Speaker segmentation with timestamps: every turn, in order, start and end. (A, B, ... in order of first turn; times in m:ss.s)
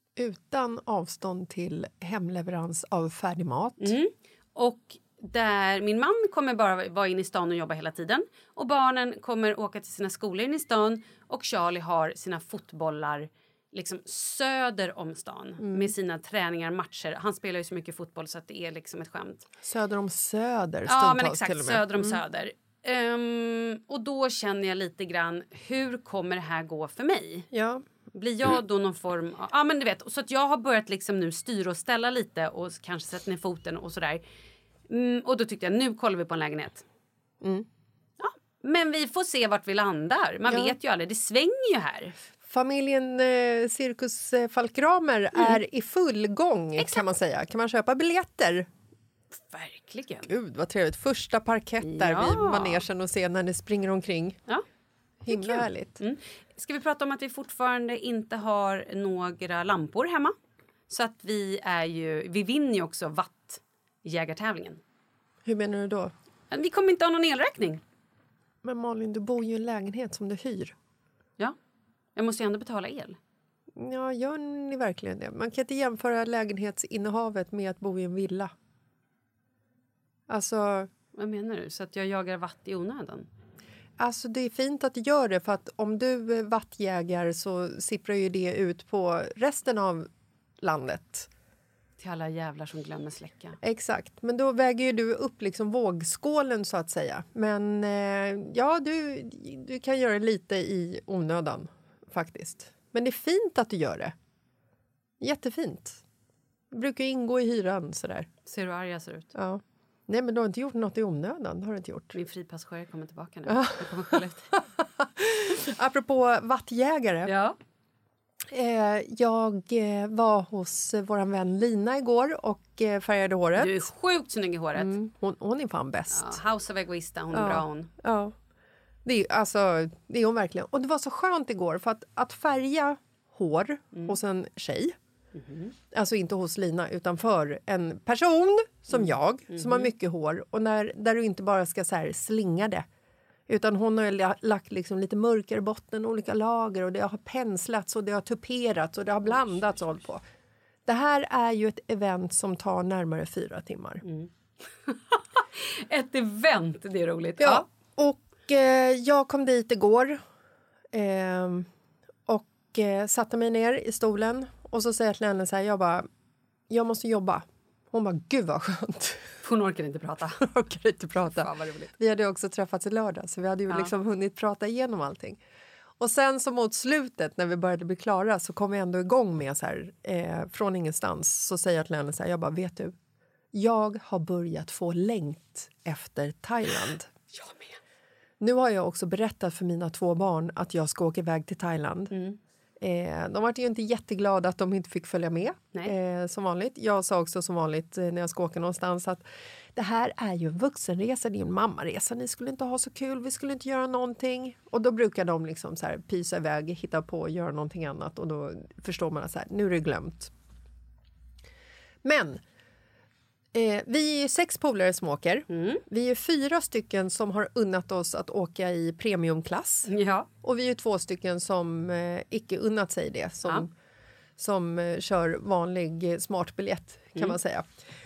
0:00.2-0:03.9 A
0:03.8-0:19.4 B
0:15.6-0:15.9 A
0:19.6-0:22.2 A
0:20.9-0:27.5 B
0:27.5-0:27.8 A
0:28.1-0:34.2 B
0:34.9-0:36.8 B
0:37.4-0:37.6 A
0:38.2-0:42.1 B
0:40.5-0:40.8 A
0:42.5-0:48.7 A
0:46.8-0:47.0 B
0:49.4-0:50.3 B
0:50.3-0:54.4 A
0:51.8-0:52.8 B
0:55.2-0:56.0 A
0:55.2-1:00.3 B
1:00.9-1:04.8 B
1:05.4-1:06.1 A
1:06.5-1:07.8 B
1:08.6-1:10.7 A
1:12.2-1:13.2 B
1:13.8-1:18.5 A
1:20.3-1:20.9 A
1:21.2-1:23.3 B
1:24.0-1:30.1 A
1:30.6-1:31.3 A
1:32.0-1:33.6 B
1:33.6-1:44.1 A
1:45.2-1:46.0 A
1:46.7-1:48.3 A
1:48.4-1:49.3 B
1:49.3-1:52.1 A
1:52.1-1:54.5 B
1:53.5-1:57.3 A
1:57.2-1:57.6 B
1:58.5-2:03.9 A
2:03.6-2:04.9 B
2:04.8-2:06.4 A
2:06.1-2:07.9 B
2:07.3-2:08.3 A
2:09.0-2:14.9 A
2:15.3-2:15.7 B
2:15.9-2:22.8 A
2:18.9-2:19.9 B
2:23.5-2:30.2 A
2:29.3-2:29.5 B
2:30.8-2:34.0 A
2:34.0-2:34.3 B
2:34.8-2:37.6 B
2:37.4-2:40.2 A
2:40.9-2:41.7 A
2:42.3-2:46.1 A
2:46.7-2:49.3 A
2:49.4-2:50.4 B
2:50.4-2:55.4 A
2:51.3-2:51.9 B
2:56.0-3:02.9 A
3:03.5-3:07.1 A
3:07.3-3:07.8 B
3:08.4-3:12.1 A
3:12.1-3:12.4 B
3:12.8-3:19.2 A
3:19.7-3:30.3 A
3:32.0-3:32.4 A
3:33.5-3:39.9 A
3:35.5-3:35.8 B
3:39.9-3:40.3 B
3:40.4-3:43.7 A
3:44.4-3:47.6 A